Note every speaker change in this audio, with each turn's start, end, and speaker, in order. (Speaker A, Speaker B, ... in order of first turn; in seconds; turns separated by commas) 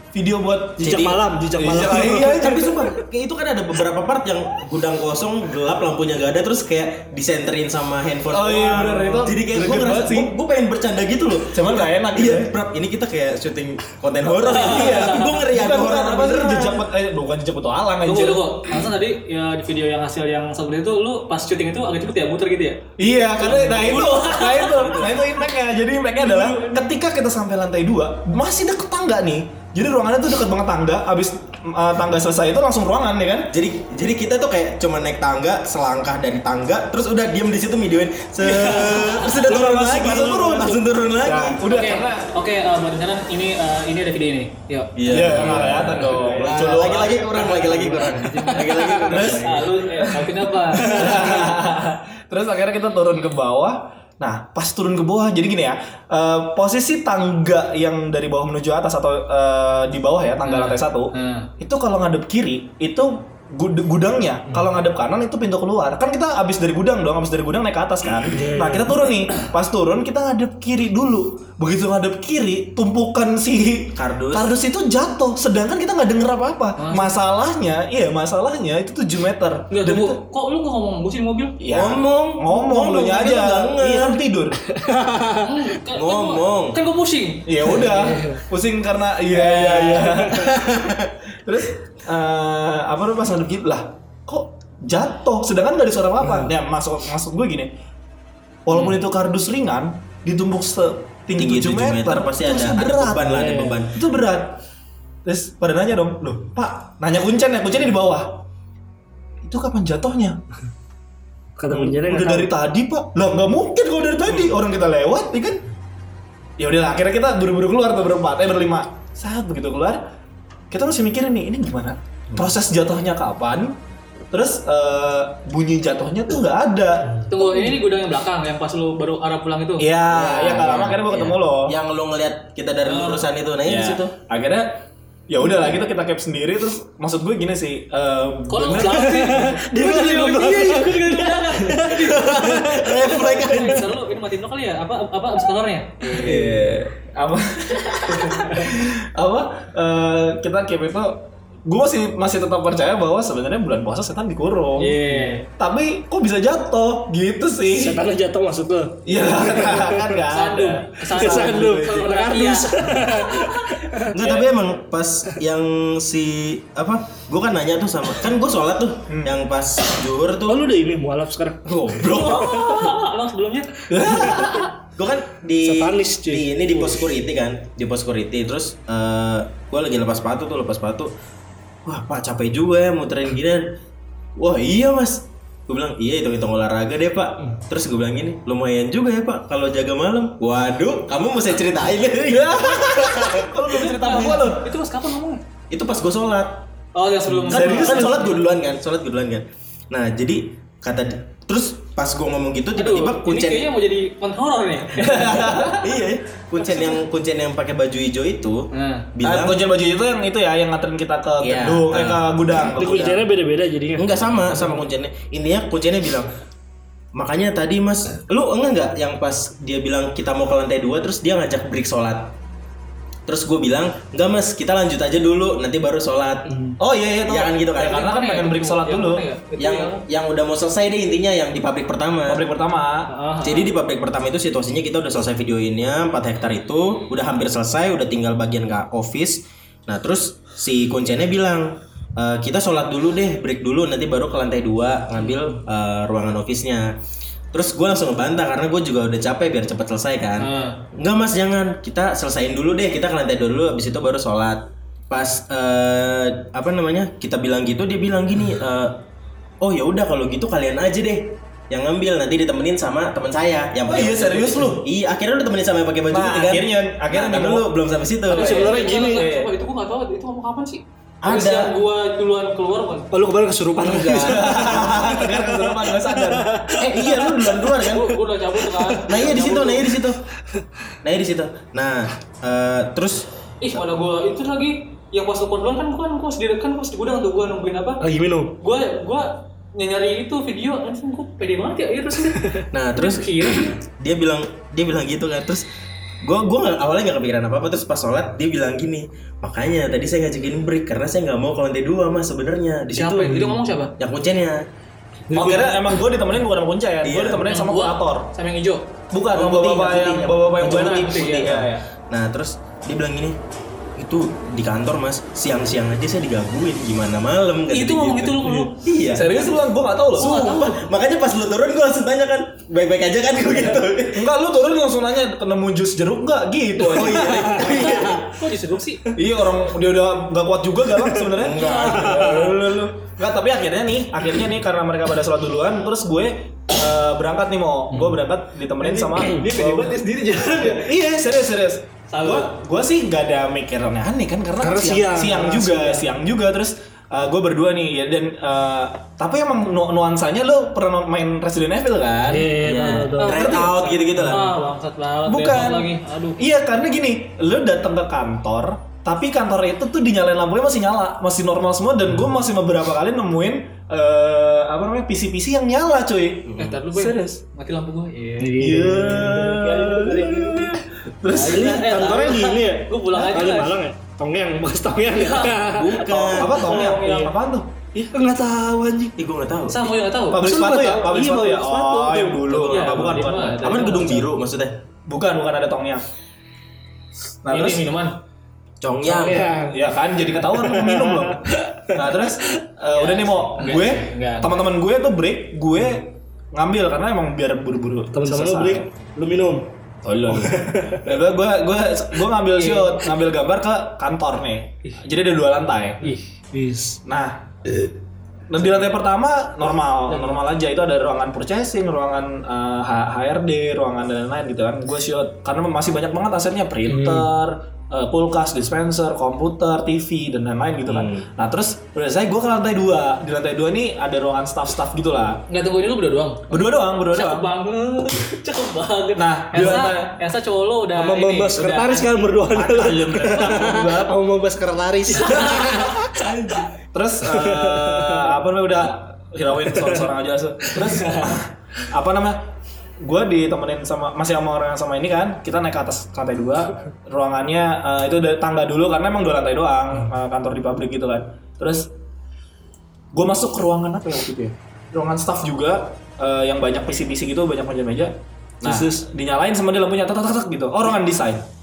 Speaker A: 0.1-2.9, Speaker B: 0.8-2.5, Speaker C: 1.9-16.8, Speaker A: 8.3-10.3, Speaker A: 11.5-12.5, Speaker A: 14.4-18.8, Speaker D: 14.5-15.3, Speaker D: 18.0-25.1, Speaker A: 23.0-33.5, Speaker C: 24.8-25.1, Speaker D: 26.3-26.7, Speaker C: 33.5-41.6, Speaker A: 38.4-42.3, Speaker D: 41.6-44.9, Speaker C: 45.0-50.0, Speaker A: 45.1-47.1, Speaker D: 46.6-51.4, Speaker B: 48.2-49.1, Speaker A: 49.1-80.2, Speaker D: 60.4-61.5, Speaker B: 68.3-69.0, Speaker C: 73.9-74.5, Speaker D: 76.8-77.1, Speaker D: 79.7-81.5, Speaker A: 81.6-84.6, Speaker C: 81.7-84.2, Speaker B: 84.8-85.6, Speaker D: 85.4-88.1, Speaker C: 85.9-86.8, Speaker A: 87.5-90.8, Speaker B: 88.0-88.4, Speaker D: 89.3-90.3, Speaker C: 90.5-91.1, Speaker A: 91.4-97.7, Speaker A: 98.7-103.3, Speaker C: 101.3-104.0, Speaker B: 103.2-103.8, Speaker A: 103.9-104.5, Speaker A: 105.2-108.4, Speaker A: 109.4-110.4, Speaker B: 111.6-112.5, Speaker A: 111.7-115.6, Speaker A: 116.6-120.0, Speaker A: 120.7-123.8, Speaker A: 124.3-127.7, Speaker D: 127.3-129.9, Speaker A: 129.8-131.7, Speaker C: 130.1-134.1, Speaker D: 132.8-133.3, Speaker A: 133.7-134.7, Speaker A: 135.3-139.6, Speaker D: 138.5-146.4, Speaker B: 138.8-142.9, Speaker C: 141.9-143.9, Speaker A: 146.1-155.0, Speaker C: 146.1-146.8, Speaker D: 148.1-148.6, Speaker D: 154.8-155.4, Speaker A: 155.6-158.0, Speaker B: 157.7-160.2, Speaker A: 159.0-161.8, Speaker D: 160.3-163.8, Speaker B: 161.1-164.1, Speaker C: 164.1-170.6, Speaker A: 164.2-164.5, Speaker A: 169.1-169.4, Speaker B: 170.5-171.6, Speaker C: 171.7-172.9, Speaker D: 172.0-174.4, Speaker A: 173.9-174.8, Speaker C: 175.0-181.1, Speaker B: 175.6-176.5, Speaker C: 181.8-183.7, Speaker C: 184.4-193.5, Speaker A: 192.3-194.6, Speaker D: 193.7-195.4, Speaker C: 195.7-196.6, Speaker D: 196.9-198.4, Speaker A: 197.5-198.4, Speaker C: 197.5-203.7, Speaker D: 202.8-205.5, Speaker A: 205.0-206.0, Speaker C: 205.4-209.6, Speaker D: 208.7-209.1, Speaker A: 209.2-213.2, Speaker C: 211.4-212.3, Speaker B: 212.5-214.7, Speaker C: 214.0-216.3, Speaker C: 217.1-222.3, Speaker C: 223.3-226.5, Speaker B: 226.5-226.8, Speaker A: 226.8-229.2, Speaker C: 227.2-228.1, Speaker D: 227.8-230.0, Speaker C: 229.6-232.4, Speaker A: 232.3-233.1, Speaker D: 233.1-233.7, Speaker C: 233.4-246.9, Speaker C: 247.5-258.9, Speaker D: 250.4-250.8, Speaker C: 259.6-268.8, Speaker A: 263.9-264.8, Speaker A: 266.1-267.7, Speaker B: 268.3-269.3, Speaker D: 268.3-273.1, Speaker A: 269.0-269.5, Speaker C: 271.2-271.7, Speaker B: 273.1-277.2, Speaker C: 273.8-274.9, Speaker A: 274.2-276.6, Speaker C: 276.7-278.2, Speaker D: 277.2-279.9, Speaker C: 279.0-280.2, Speaker C: 281.0-283.2, Speaker D: 283.6-288.0, Speaker B: 288.0-288.5, Speaker D: 288.6-293.8, Speaker C: 292.7-295.6, Speaker C: 296.2-304.6, Speaker D: 302.9-303.9, Speaker B: 305.3-305.8, Speaker A: 305.3-308.3, Speaker C: 307.0-307.4, Speaker D: 307.4-308.8, Speaker A: 309.1-311.8, Speaker C: 309.3-313.4, Speaker D: 310.7-311.5, Speaker C: 314.0-319.5, Speaker D: 317.7-318.7, Speaker A: 319.1-320.4, Speaker D: 320.1-320.8, Speaker C: 320.1-324.2, Speaker A: 324.1-328.0, Speaker C: 326.8-328.3, Speaker D: 327.5-329.1, Speaker A: 329.1-340.0, Speaker C: 331.3-332.5, Speaker D: 331.6-332.1, Speaker B: 332.0-332.6, Speaker B: 338.8-340.7, Speaker D: 339.3-340.8, Speaker A: 340.8-352.5, Speaker D: 342.1-342.5, Speaker B: 344.6-346.0, Speaker B: 352.2-353.6, Speaker C: 352.6-354.5, Speaker D: 353.2-356.4, Speaker A: 355.2-367.4, Speaker C: 366.4-366.8, Speaker D: 366.6-368.8, Speaker B: 368.4-370.8, Speaker A: 368.6-372.1, Speaker D: 369.5-370.7, Speaker D: 371.3-373.8, Speaker B: 371.5-377.0, Speaker A: 373.1-373.4, Speaker D: 375.0-377.3, Speaker C: 375.7-376.8, Speaker A: 376.3-377.7, Speaker B: 377.9-379.2, Speaker C: 379.2-379.9, Speaker D: 379.7-380.5, Speaker A: 380.3-383.9, Speaker B: 380.4-382.7, Speaker C: 382.5-384.7, Speaker D: 382.7-384.3, Speaker A: 385.1-386.1, Speaker A: 387.4-387.9, Speaker D: 387.4-388.1, Speaker C: 388.8-389.5, Speaker B: 389.0-389.8, Speaker A: 389.6-398.9, Speaker B: 390.7-391.3, Speaker D: 392.9-394.5, Speaker B: 398.1-399.7, Speaker A: 400.0-406.1, Speaker B: 400.3-401.1, Speaker D: 402.5-403.1, Speaker B: 406.5-407.0, Speaker A: 407.1-407.8, Speaker A: 408.5-425.4, Speaker B: 416.9-417.3, Speaker C: 420.9-421.3, Speaker D: 425.5-432.1, Speaker A: 426.5-427.5, Speaker A: 429.1-430.1, Speaker B: 430.9-436.6, Speaker A: 432.5-434.2, Speaker D: 435.1-435.9, Speaker A: 436.9-442.4, Speaker B: 437.2-438.3, Speaker B: 439.8-440.1, Speaker A: 443.0-451.9, Speaker A: 453.1-461.4, Speaker B: 458.6-458.9